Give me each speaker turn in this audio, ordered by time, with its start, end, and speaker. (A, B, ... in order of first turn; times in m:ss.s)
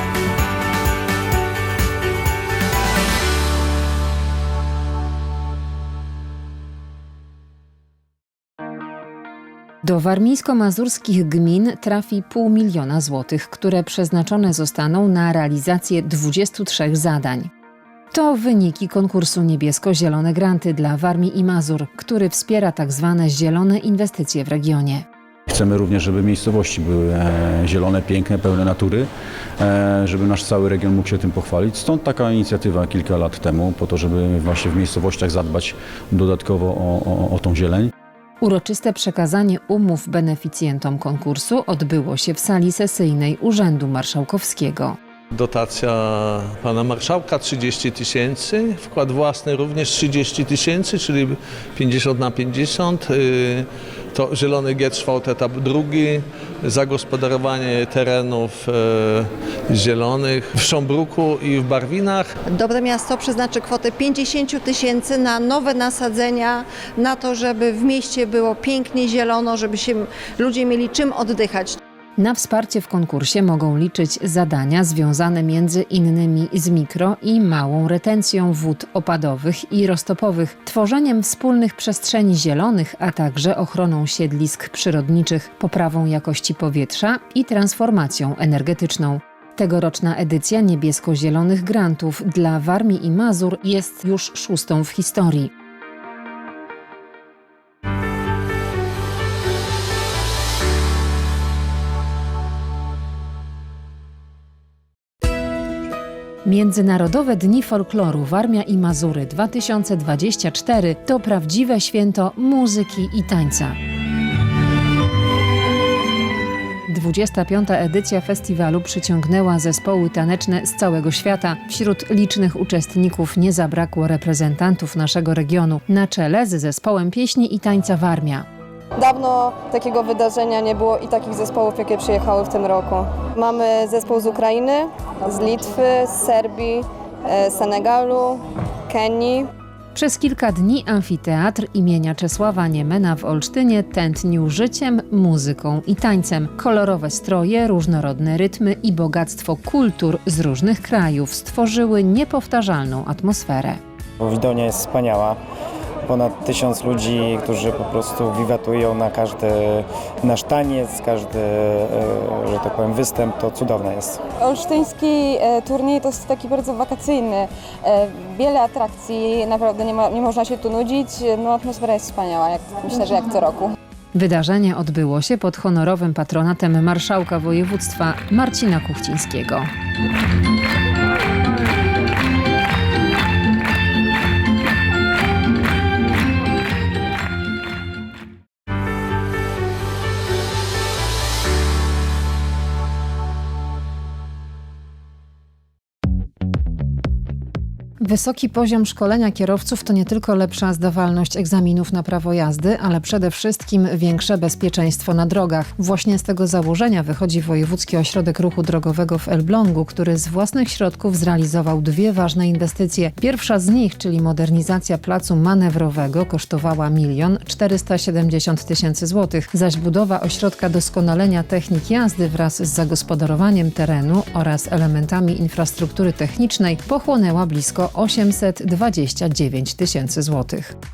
0:09.8-0:17.5 A
0:18.1-0:25.0 A
0:25.5-0:37.9 B
0:38.4-0:45.0 A
0:45.3-1:02.3 C
1:02.4-1:11.8 D
1:12.2-1:35.5 A
1:46.4-1:53.8 A
1:56.9-2:08.4 A
2:09.0-2:18.4 E
2:18.9-2:19.4 E
2:19.9-2:33.8 A
2:34.2-2:35.4 F
2:36.0-2:44.2 F
2:44.4-2:53.7 E
2:54.1-2:59.7 A
3:18.0-3:50.7 A